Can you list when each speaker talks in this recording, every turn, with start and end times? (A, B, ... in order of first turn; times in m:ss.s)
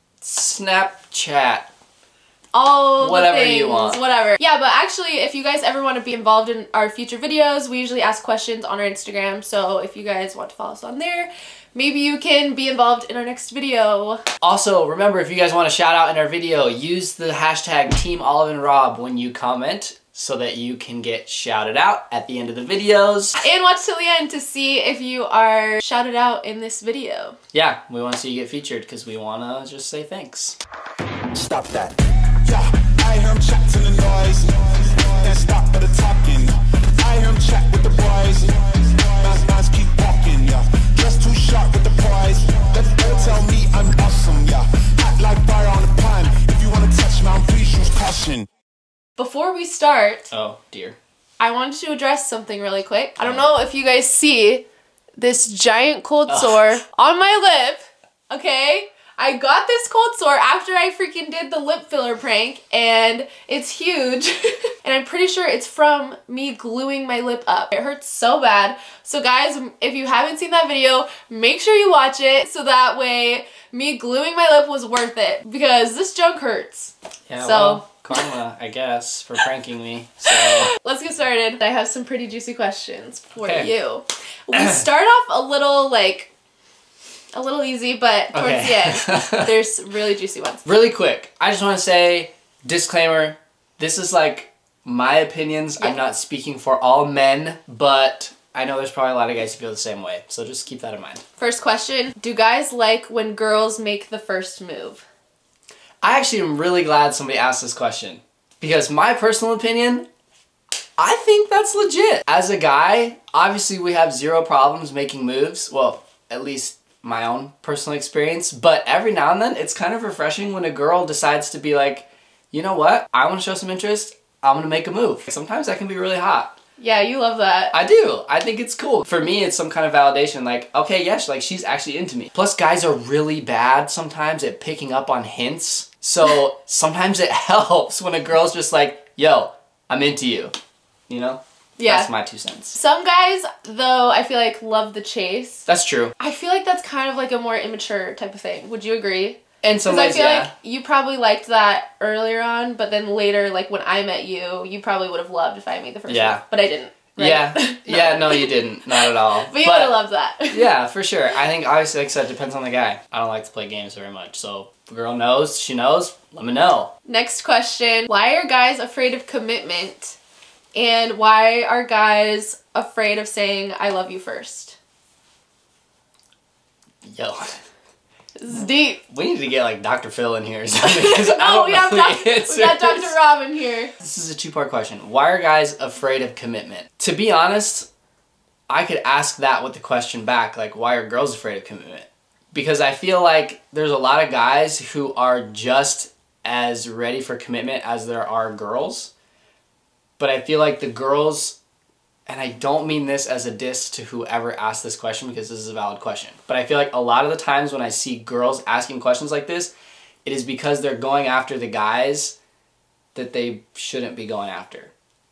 0:00.2-0:01.7 A
0:02.5-0:14.2 B
0:03.0-0:04.0 A
0:14.4-0:23.4 A
0:23.4-0:27.4 B
0:27.5-0:30.6 A
0:31.4-0:48.5 C
0:49.2-0:50.3 B
0:50.3-0:51.0 A
0:51.4-0:54.6 B
0:55.2-1:18.0 B
0:56.3-0:56.8 A
1:17.3-1:20.7 A
1:20.3-1:26.3 B
1:23.4-1:23.7 A
1:24.5-1:24.8 A
1:27.3-1:30.6 B
1:28.3-1:29.5 A
1:30.6-1:41.2 A
1:41.4-1:45.0 B
1:46.0-1:50.1 A
1:51.0-2:06.6 A
2:06.8-2:07.7 B
2:07.7-2:20.6 A
2:21.1-2:22.8 A
2:21.8-2:22.1 B
2:22.7-2:25.7 B
2:25.7-2:26.1 A
2:26.2-2:40.7 B
2:29.6-2:30.5 A
2:36.1-2:36.4 A
2:37.2-2:40.0 A
2:40.5-2:46.9 A
2:47.1-2:50.2 B
2:50.8-2:54.8 B
2:57.0-2:57.6 A
2:58.4-2:59.0 B
2:59.1-3:03.2 A
3:00.8-3:03.9 B
3:04.0-3:07.9 A
3:08.7-3:19.1 A
3:20.2-3:21.6 A
3:22.3-3:29.7 A
3:30.2-3:32.4 A
3:33.2-3:34.9 A